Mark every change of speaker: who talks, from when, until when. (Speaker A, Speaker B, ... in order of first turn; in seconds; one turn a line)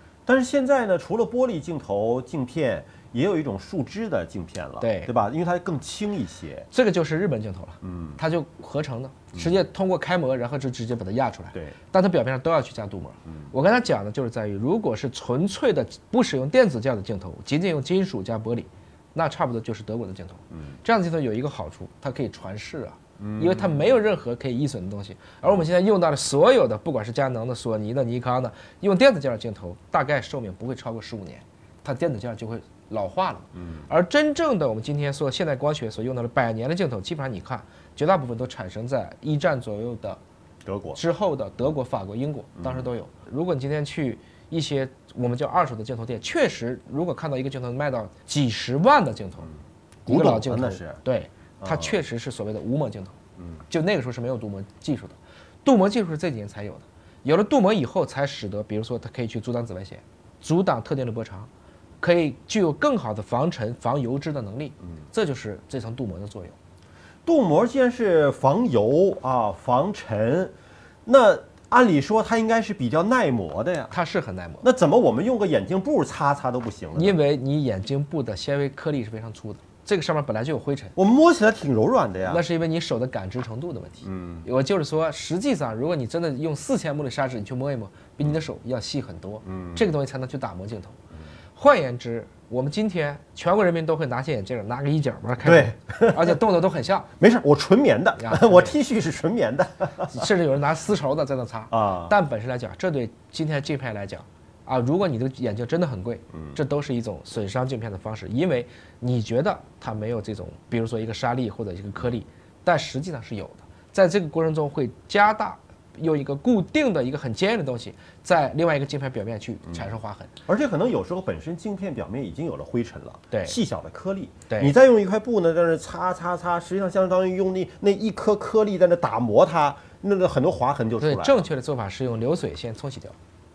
Speaker A: 0.2-6.7
Speaker B: 4.8-5.1
Speaker B: 6.7-40.2
Speaker A: 7.8-8.2
Speaker A: 20.5-20.8
Speaker A: 23.2-24.0
Speaker A: 33.5-33.9
Speaker A: 40.6-41.0
Speaker B: 40.9-49.5
Speaker A: 42.6-42.9
Speaker A: 50.1-51.0
Speaker B: 50.1-53.2
Speaker A: 51.6-52.0
Speaker B: 53.7-61.5
Speaker B: 62.0-66.6
Speaker A: 67.2-70.5
Speaker A: 71.0-73.9
Speaker B: 73.9-74.7
Speaker A: 74.6-77.2
Speaker B: 76.9-80.9
Speaker A: 81.0-82.4
Speaker B: 82.3-91.0
Speaker A: 84.0-84.5
Speaker A: 89.5-89.8
Speaker B: 91.5-97.1
Speaker A: 95.4-96.4
Speaker A: 97.2-100.2
Speaker B: 98.2-98.7
Speaker B: 100.1-120.3
Speaker A: 101.7-102.1
Speaker A: 106.3-106.6
Speaker A: 120.5-131.4
Speaker B: 123.3-123.5
Speaker B: 131.0-133.1